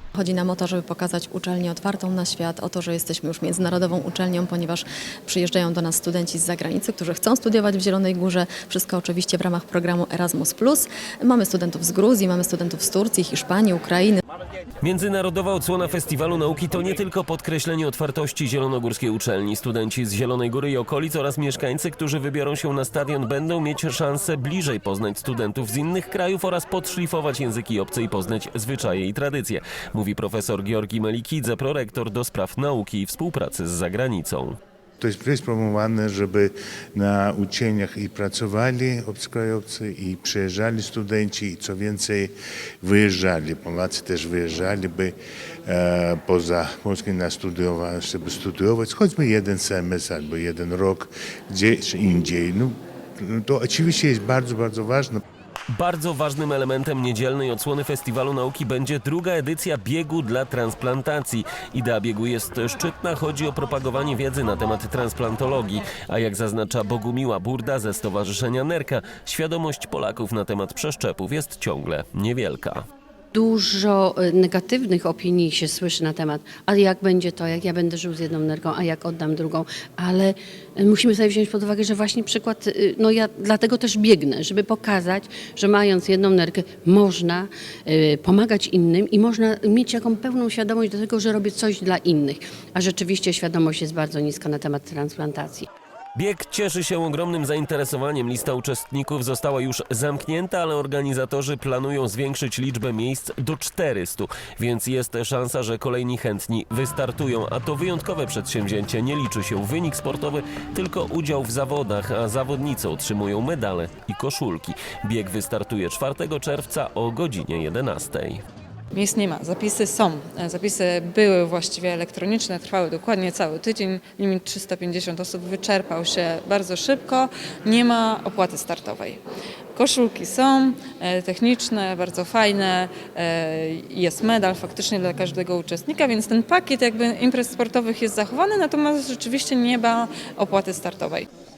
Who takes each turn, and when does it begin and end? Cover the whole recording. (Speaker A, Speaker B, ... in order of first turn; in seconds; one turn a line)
Speaker A: 0.2-14.2
Speaker B: 14.8-34.6
Speaker C: 35.0-55.2
Speaker B: 55.7-72.9
Speaker D: 73.3-95.7
Speaker B: 96.2-118.4
Speaker E: 118.9-129.2
Speaker E: 129.8-141.3